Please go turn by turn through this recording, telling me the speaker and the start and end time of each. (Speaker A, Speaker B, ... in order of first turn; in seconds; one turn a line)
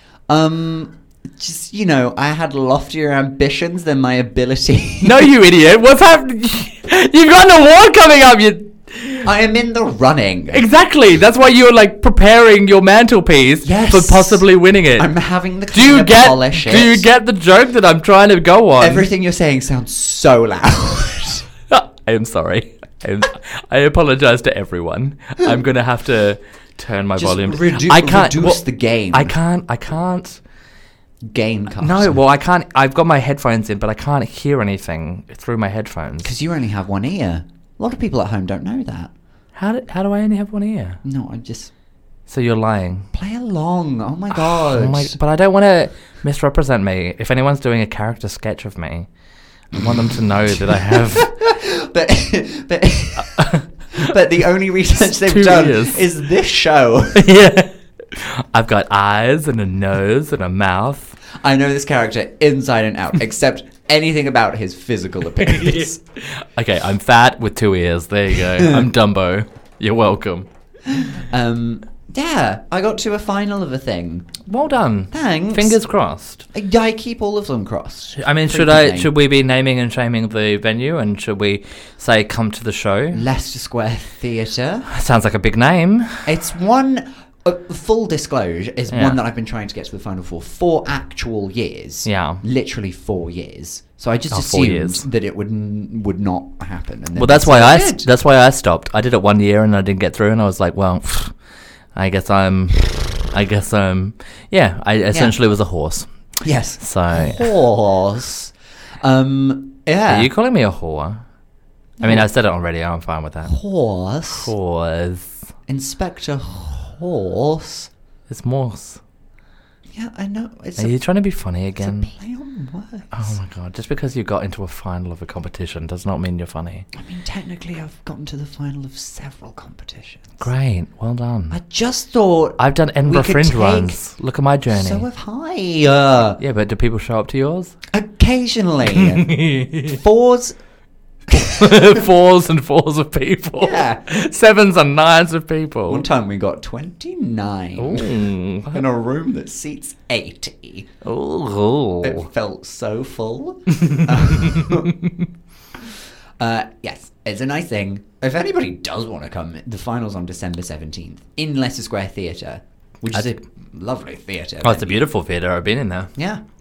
Speaker A: 0.3-5.3
Speaker B: 5.0-9.3
Speaker A: 9.2-10.6
Speaker B: 10.5-15.1
Speaker A: 13.6-14.4
Speaker A: 15.0-17.0
Speaker B: 15.7-19.1
Speaker A: 18.8-21.4
Speaker B: 21.7-28.6
Speaker A: 27.2-29.4
Speaker B: 29.1-30.4
Speaker A: 31.3-32.2
Speaker B: 31.8-36.3
Speaker A: 36.2-39.1
Speaker B: 39.6-41.0
Speaker A: 41.0-41.7
Speaker B: 42.3-43.1
Speaker A: 43.1-45.1
Speaker B: 44.3-49.1
Speaker B: 49.7-51.3
Speaker A: 50.9-57.2
Speaker B: 53.3-53.6
Speaker B: 55.0-56.1
Speaker B: 57.1-61.1
Speaker A: 61.4-66.0
Speaker B: 65.4-70.5
Speaker A: 68.5-68.9
Speaker A: 70.9-74.3
Speaker B: 74.5-76.5
Speaker A: 75.1-75.8
Speaker A: 76.5-79.1
Speaker B: 78.2-83.2
Speaker A: 83.1-84.9
Speaker B: 84.9-86.2
Speaker A: 86.2-98.1
Speaker B: 88.9-89.2
Speaker B: 92.0-92.4
Speaker B: 94.3-95.1
Speaker B: 97.2-101.3
Speaker B: 102.0-106.1
Speaker A: 106.4-110.3
Speaker B: 106.8-107.5
Speaker B: 110.1-111.2
Speaker A: 112.0-112.3
Speaker B: 112.0-113.5
Speaker A: 113.5-114.5
Speaker B: 114.3-115.3
Speaker A: 115.7-117.9
Speaker B: 118.3-119.0
Speaker A: 119.9-121.0
Speaker B: 120.8-122.1
Speaker A: 121.8-123.3
Speaker B: 123.1-126.9
Speaker A: 126.9-130.4
Speaker B: 130.4-131.6
Speaker A: 131.5-134.0
Speaker B: 132.6-135.1
Speaker A: 134.7-136.4
Speaker B: 136.4-137.7
Speaker A: 137.9-140.6
Speaker B: 138.9-140.0
Speaker A: 141.3-141.7
Speaker B: 141.3-146.0
Speaker A: 143.6-144.0
Speaker A: 145.9-150.9
Speaker B: 147.8-148.8
Speaker B: 151.0-152.2
Speaker A: 152.0-155.0
Speaker B: 153.8-155.1
Speaker A: 156.4-165.0
Speaker B: 164.6-166.1
Speaker A: 166.2-166.4